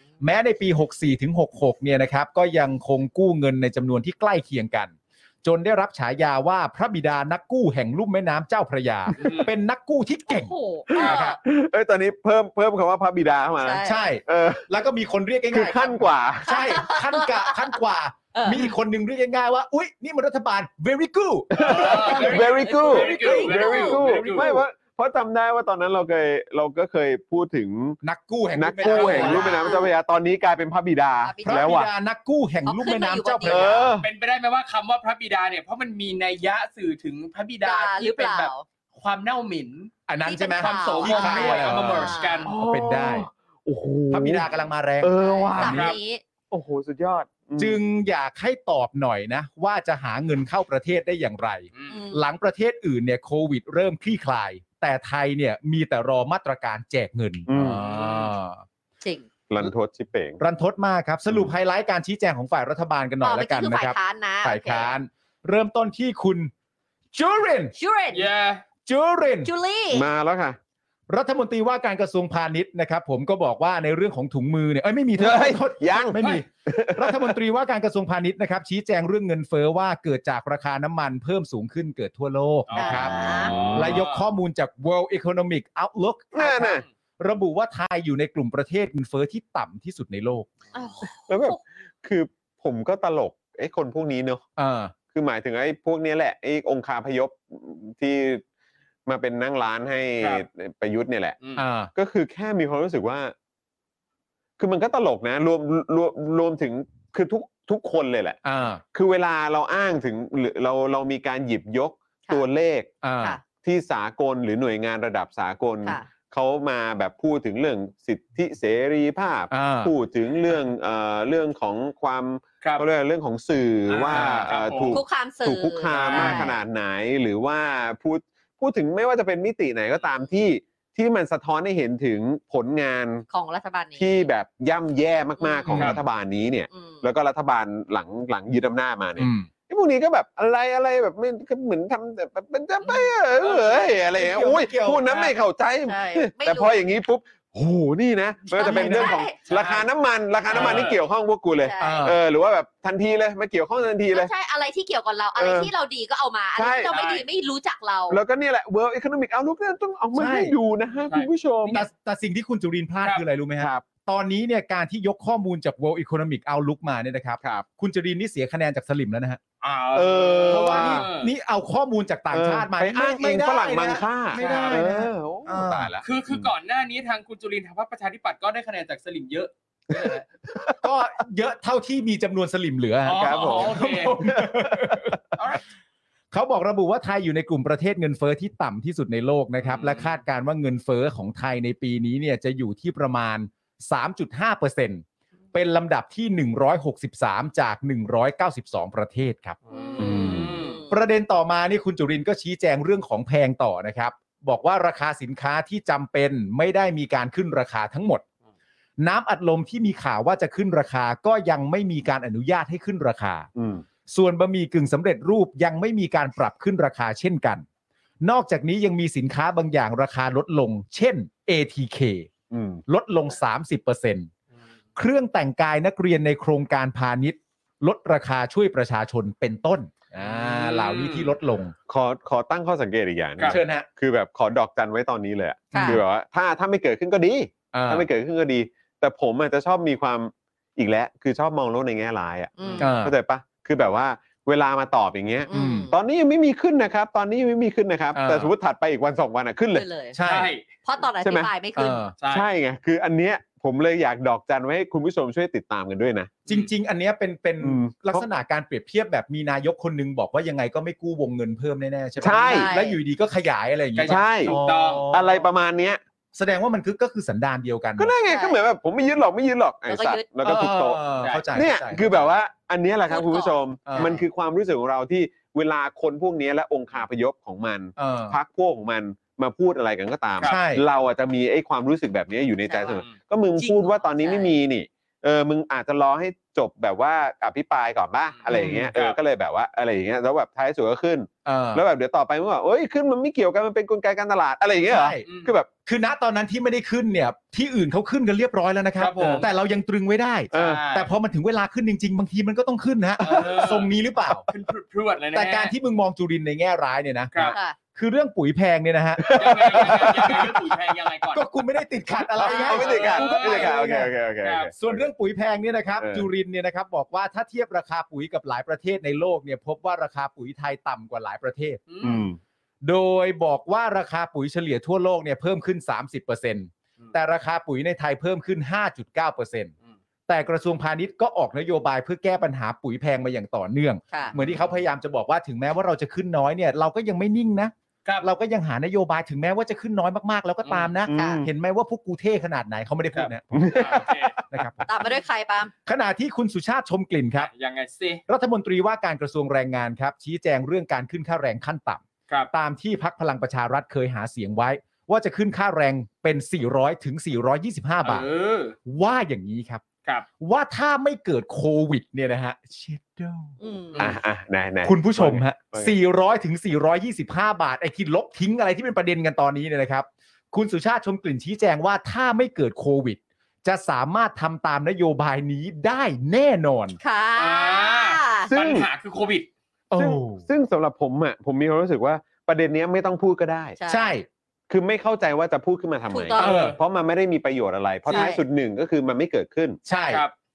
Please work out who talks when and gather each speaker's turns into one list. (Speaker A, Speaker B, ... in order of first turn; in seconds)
Speaker A: 0.2-11.4, 13.8-22.5, 28.0-29.7, 31.4-34.0, 40.1-43.3, 44.1-45.9, 47.6-58.6, 60.4-66.5, 67.1-67.8, 68.9-69.5, 71.1-83.1, 83.7-90.5, 94.6-94.9, 101.6-101.9, 108.4-108.8, 113.0-113.4, 119.5-119.9, 135.7-136.0, 139.2-139.5, 144.1-145.3, 148.6-149.2, 151.8-152.2, 160.2-160.6, 161.7-169.4, 170.5-176.0, 180.8-185.2, 186.3-199.6, 200.9-208.2, 209.0-213.5, 214.1-217.7, 218.2-222.3, 222.9-224.3, 224.9-231.8, 233.5-233.9, 235.7-236.0, 237.7-238.1, 242.8-243.2, 245.5-245.9, 248.1-248.5, 250.1-250.5, 251.8-252.2, 256.5-265.4, 266.4-268.1, 270.4-272.3, 273.9-274.2, 278.0-278.4, 280.4-280.8, 288.5-288.9, 291.4-291.8, 294.9-295.3, 295.9-304.5, 305.3-310.5, 311.3-314.1, 314.8-321.9, 322.8-329.7, 330.3-344.9, 345.9-347.5, 348.3-358.3, 358.9-359.8, 360.4-363.6, 364.8-377.0, 379.9-380.4, 383.9-384.3, 386.4-386.8, 389.9-390.2
Speaker B: 9.2-9.5, 11.0-11.2, 21.6-24.6, 28.8-29.7, 34.0-39.9, 40.6-42.5, 45.6-46.0, 51.7-52.0, 68.1-68.6, 76.2-76.4, 82.7-84.3, 100.2-100.4, 123.9-125.0, 125.9-126.5, 135.7-136.0, 142.9-144.0, 149.4-149.9, 150.5-151.0, 156.8-157.2, 161.1-161.9, 169.6-171.3, 174.3-174.9, 176.0-180.2, 183.0-184.2, 185.4-185.6, 189.6-190.2, 199.7-200.8, 230.2-231.3, 242.6-242.9, 250.2-250.6, 252.2-252.5, 263.9-265.1, 271.2-271.4, 288.4-289.2, 295.2-295.5, 299.0-299.5, 300.5-301.1, 303.2-303.9, 304.5-305.7, 309.3-311.4, 312.4-313.9, 314.4-314.7, 321.9-322.2, 334.3-334.6, 340.6-340.9, 343.1-344.4, 347.4-348.2, 358.0-358.8, 377.4-379.5, 386.4-386.8, 390.1-390.3
Speaker C: 10.3-11.4, 13.6-14.0, 16.5-17.8, 18.3-18.7, 22.1-24.4, 29.0-29.9, 31.2-31.8, 32.6-33.9, 37.6-38.6, 40.2-42.5, 45.1-46.2, 51.9-52.2, 59.0-59.3, 63.2-65.0, 67.8-68.3, 69.4-70.1, 82.8-83.5, 90.7-91.6, 124.9-126.5, 133.3-134.3, 135.4-135.8, 136.7-137.1, 145.8-146.8, 148.5-149.4, 151.6-152.1, 154.1-158.2, 199.7-201.0, 235.7-236.0, 242.6-242.9, 245.5-245.9, 249.7-250.2, 250.8-252.1, 262.3-263.0, 268.3-268.6, 269.9-270.3, 273.1-274.2, 282.7-283.0, 283.6-284.6, 307.4-307.8, 312.4-312.8, 341.1-341.4, 344.9-345.7, 363.6-364.1, 377.0-378.5, 383.8-384.2, 386.1-386.6, 388.1-388.4
Speaker D: 10.9-14.7, 15.5-16.9, 21.5-28.0, 28.6-31.9, 33.5-34.1, 42.5-45.9, 46.5-47.8, 57.5-57.8, 59.5-60.4, 69.9-70.6, 75.2-77.4, 83.2-84.0, 86.3-86.8, 91.3-94.4, 95.1-98.4, 99.1-101.4, 102.0-103.3, 104.6-108.4, 108.9-112.9, 113.6-133.3, 134.0-154.3, 155.4-155.7, 156.6-157.0, 158.1-161.8, 163.6-163.9, 169.9-171.1, 172.3-176.5, 179.9-180.8, 183.1-185.2, 200.0-200.6, 213.6-213.8, 222.5-222.8, 231.9-249.9, 251.2-251.5, 252.2-256.3, 257.6-258.3, 262.2-262.8, 264.1-264.6, 265.1-266.0, 268.0-295.7, 309.2-310.6, 312.4-315.1, 316.0-316.3, 322.0-322.4, 341.1-341.5, 343.5-344.4, 364.0-366.0, 378.5-378.9, 380.0-383.8, 384.7-389.8